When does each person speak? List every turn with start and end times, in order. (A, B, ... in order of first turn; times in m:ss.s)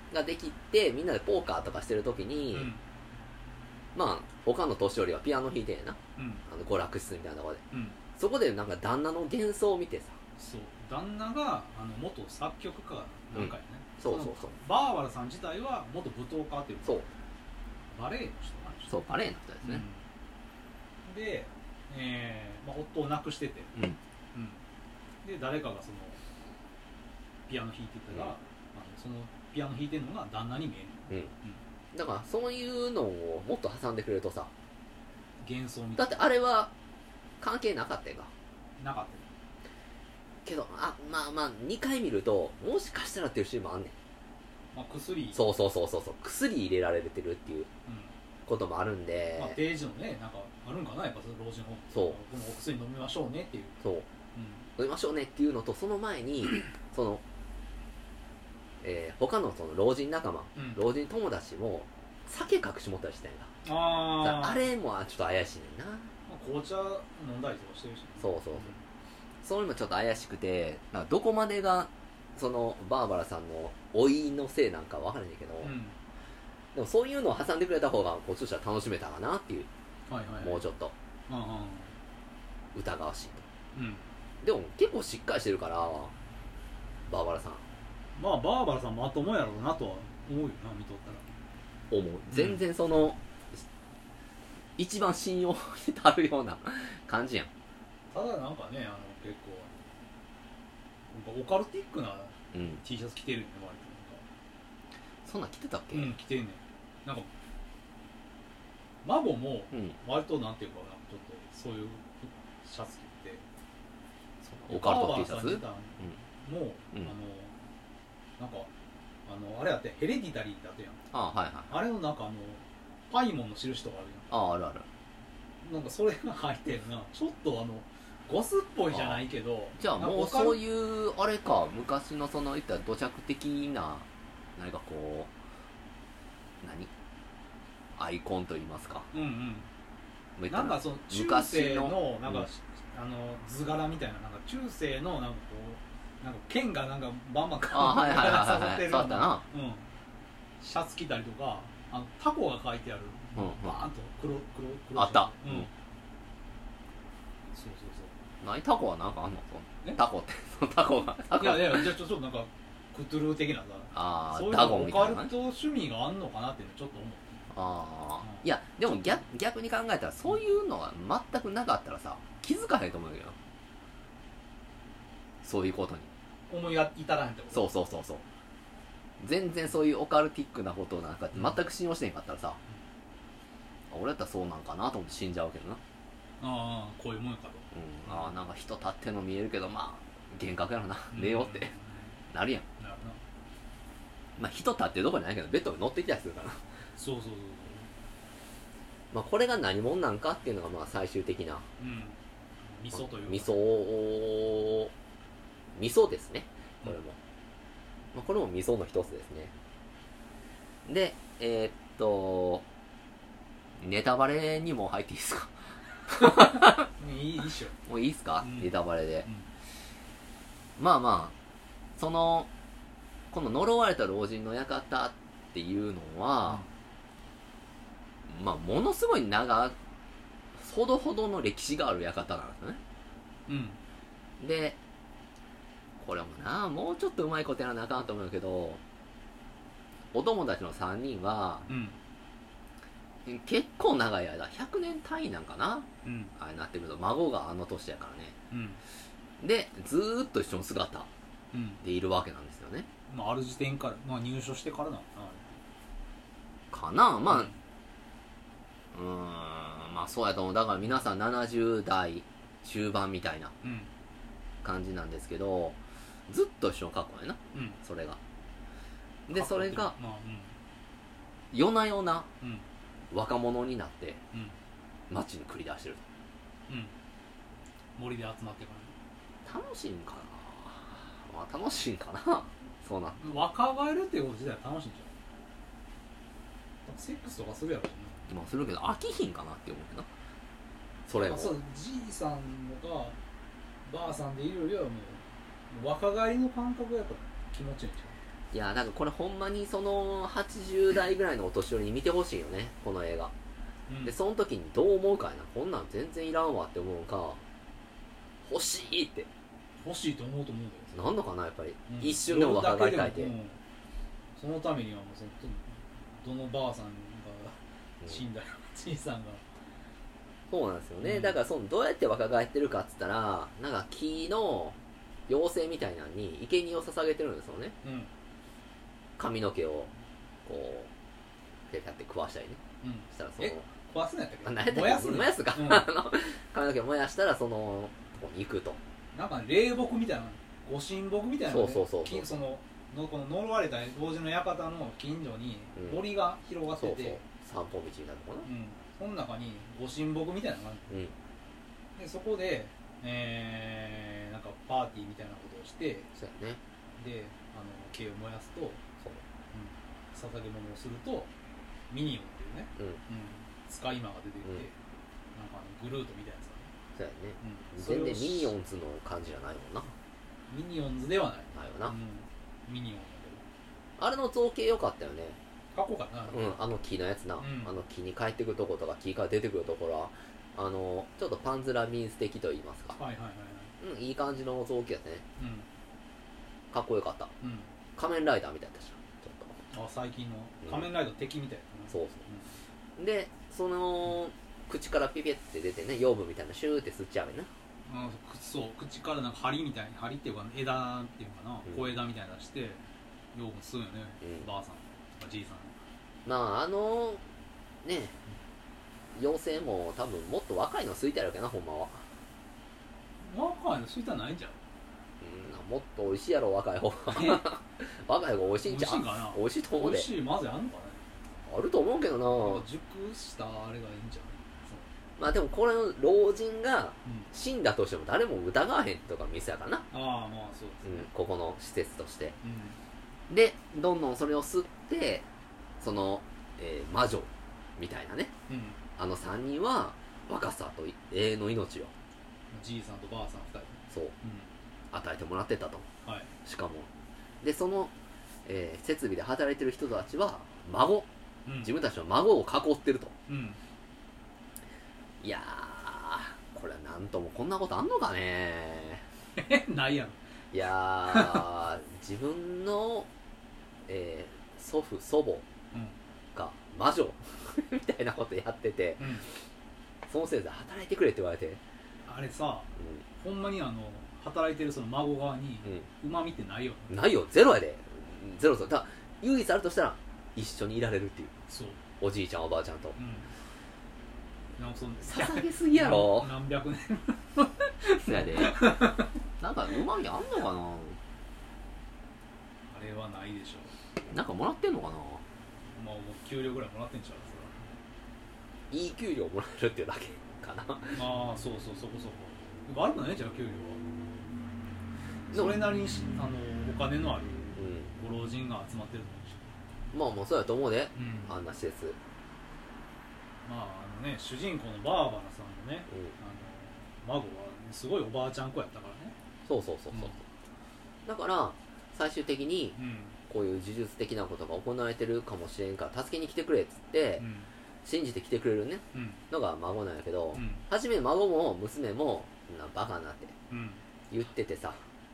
0:00.1-0:02.7 A
0:02.5-0:02.8 B
0:03.9-0:07.6 A
0:06.2-0:06.4 B
0:07.7-0:08.0 B
0:08.2-0:10.2 A
0:10.4-0:17.1 B
0:13.3-0:14.5 A
0:17.9-0:19.0 B
0:18.9-0:19.8 A
0:19.6-0:20.0 B
0:21.0-0:23.8 B
0:24.3-0:24.6 B
0:25.2-0:26.2 B
0:27.5-0:31.6 B
0:31.9-0:34.5 A
0:35.4-0:36.2 B
0:36.0-0:36.7 A
0:37.4-0:38.3 A
0:38.8-0:39.3 B
0:40.4-0:43.9 A
0:44.7-0:45.4 B
0:45.3-0:47.7 A
0:47.8-0:48.1 B
0:48.4-0:49.6 A
0:49.3-0:53.8 B
0:51.9-0:52.2 A
0:53.8-0:54.0 A
0:54.3-0:54.7 B
0:54.8-0:57.2 A
0:58.8-1:03.5 A
1:00.6-1:00.8 B
1:03.6-1:04.6 B
1:04.2-1:06.1 A
1:06.3-1:08.8 B
1:08.2-1:08.7 A
1:09.4-1:15.7 A
1:15.6-1:16.0 B
1:16.7-1:19.7 A
1:20.1-1:20.6 B
1:20.4-1:20.9 A
1:21.3-1:21.9 B
1:22.7-1:23.4 A
1:23.7-1:24.1 B
1:24.4-1:26.1 A
1:27.1-1:27.6 A
1:28.2-1:31.3 B
1:31.9-1:33.6 A
1:32.3-1:32.6 B
1:34.8-1:37.5 A
1:38.1-1:39.8 B
1:41.1-1:44.2 B
1:42.5-1:42.8 A
1:45.2-1:46.1 A
1:45.9-1:47.3 B
1:49.0-1:53.4 B
1:54.4-1:56.1 A
1:54.7-1:57.5 B
1:58.4-1:58.7 B
1:59.2-2:01.0 B
2:01.1-2:01.7 A
2:01.7-2:04.4 B
2:04.3-2:04.9 A
2:05.6-2:10.6 B
2:08.9-2:09.2 A
2:09.8-2:15.3 A
2:16.6-2:16.9 A
2:18.0-2:19.1 A
2:19.1-2:19.7 B
2:20.4-2:22.5 A
2:20.5-2:29.8 B
2:27.7-2:29.4 A
2:30.6-2:35.7 B
2:33.4-2:33.8 A
2:35.0-2:35.7 A
2:37.5-2:38.2 B
2:38.4-2:41.9 A
2:41.3-2:47.5 B
2:43.9-2:45.3 A
2:47.5-2:53.4 A
2:48.2-2:49.0 B
2:55.4-2:56.1 A
2:56.5-2:57.7 B
2:57.5-2:58.2 A
2:59.2-3:02.6 A
3:03.9-3:05.8 A
3:06.4-3:08.3 B
3:07.7-3:11.7 A
3:11.1-3:12.1 B
3:12.3-3:12.6 A
3:12.8-3:13.2 B
3:14.4-3:16.6 A
3:17.0-3:17.9 B
3:19.1-3:21.6 A
3:21.8-3:23.6 B
3:22.9-3:24.9 A
3:25.8-3:27.2 A
3:28.1-3:29.5 A
3:30.8-3:32.6 A
3:33.8-3:35.5 A
3:36.1-3:36.8 A
3:36.1-3:37.8 B
3:37.9-3:39.3 A
3:38.4-3:39.5 B
3:40.8-3:41.3 A
3:42.0-3:42.5 A
3:43.3-3:46.6 A
3:48.3-3:49.8 A
3:50.5-3:52.8 A
3:53.5-3:53.8 B
3:54.4-3:54.8 A
3:56.0-3:58.8 A
4:00.1-4:01.7 A
4:01.7-4:02.0 B
4:03.2-4:08.3 A
4:06.0-4:06.3 B
4:08.5-4:08.8 B
4:09.4-4:11.1 A
4:11.5-4:11.8 B
4:11.8-4:12.9 A
4:13.1-4:15.6 B
4:16.7-4:17.5 A
4:17.3-4:17.6 B
4:18.9-4:23.5 A
4:23.6-4:23.9 B
4:24.6-4:28.2 A
4:27.5-4:27.8 B
4:29.3-4:29.9 A
4:29.3-4:30.5 B
4:31.5-4:32.3 A
4:33.1-4:34.2 A
4:35.1-4:36.0 A
4:36.7-4:36.9 B
4:38.0-4:38.9 B
4:39.4-4:43.2 A
4:43.2-4:45.1 B
4:46.8-4:48.2 B
4:48.3-4:50.1 A
4:51.1-4:51.5 A
4:51.2-4:53.2 B
4:53.8-4:58.2 B
4:58.5-5:03.3 A
5:03.9-5:04.1 B
5:04.0-5:07.4 A
5:08.4-5:09.3 A
5:09.8-5:11.0 B
5:10.9-5:13.3 A
5:11.9-5:13.6 B
5:14.4-5:19.4 B
5:20.5-5:24.8 A
5:21.0-5:21.4 B
5:25.3-5:27.8 A
5:27.8-5:28.1 B
5:29.2-5:29.9 A
5:30.4-5:30.9 A
5:31.7-5:33.6 A
5:32.8-5:35.9 B
5:34.4-5:38.8 A
5:39.1-5:47.2 B
5:41.5-5:42.3 A
5:45.8-5:46.0 A
5:46.8-5:48.5 A
5:48.4-5:50.9 B
5:52.0-5:56.1 B
5:56.2-5:56.6 A
5:57.0-5:58.8 B
5:59.5-6:01.3 B
6:01.9-6:04.8 B
6:05.3-6:06.7 B
6:07.0-6:09.9 A
6:07.4-6:08.5 B
6:10.5-6:13.4 B
6:11.5-6:11.9 A
6:14.0-6:15.4 A
6:15.7-6:16.5 B
6:16.3-6:23.0 A
6:17.4-6:17.7 B
6:22.9-6:23.7 B
6:23.8-6:25.2 A
6:25.4-6:25.7 B
6:26.7-6:27.3 A
6:27.4-6:27.7 B
6:28.0-6:29.6 A
6:29.7-6:32.6 B
6:31.9-6:32.2 A
6:33.0-6:37.5 A
6:37.8-6:45.8 B
6:46.2-6:47.2 A
6:47.8-6:48.2 A
6:49.1-6:52.0 A
6:53.2-6:54.6 B
6:55.2-7:00.1 A
6:57.1-6:57.5 B
6:58.6-7:01.0 B
7:01.4-7:02.6 A
7:02.3-7:04.9 B
7:05.2-7:09.9 A
7:07.0-7:07.3 B
7:09.9-7:11.1 B
7:10.8-7:12.4 A
7:12.4-7:12.8 B
7:13.3-7:15.2 A
7:15.8-7:18.3 A
7:18.5-7:18.8 B
7:19.0-7:21.9 A
7:22.5-7:24.5 B
7:23.9-7:24.1 A
7:24.9-7:25.8 A
7:26.0-7:26.3 B
7:26.4-7:26.9 A
7:27.4-7:27.9 A
7:28.4-7:31.1 A
7:31.4-7:31.7 B
7:31.6-7:33.1 A
7:33.3-7:33.6 B
7:35.2-7:39.0 A
7:39.3-7:40.2 B
7:40.5-7:43.1 A
7:41.0-7:41.4 B
7:43.9-7:45.4 A
7:45.7-7:46.0 B
7:46.3-7:49.1 A
7:49.0-7:49.3 B
7:50.1-7:51.6 A
7:52.0-7:57.0 B
7:56.9-8:01.3 A
8:01.5-8:01.8 B
8:02.0-8:03.0 A
8:03.0-8:03.3 B
8:04.6-8:09.1 B
8:05.0-8:06.3 A
8:08.0-8:08.8 A
8:09.4-8:11.0 A
8:12.7-8:13.7 B
8:14.1-8:15.2 A
8:15.8-8:17.7 B
8:18.7-8:21.0 A
8:20.9-8:23.8 B
8:25.3-8:29.4 B
8:25.3-8:25.6 A
8:27.6-8:27.9 A
8:29.9-8:32.0 A
8:31.0-8:31.3 B
8:33.4-8:39.2 B
8:39.4-8:40.2 A
8:39.9-8:40.2 B
8:41.0-8:47.2 A
8:42.8-8:43.2 B
8:47.2-8:47.5 B
8:47.8-8:53.3 A
8:48.9-8:49.2 B
8:50.3-8:50.6 B
8:53.5-8:53.8 B
8:54.1-8:54.8 A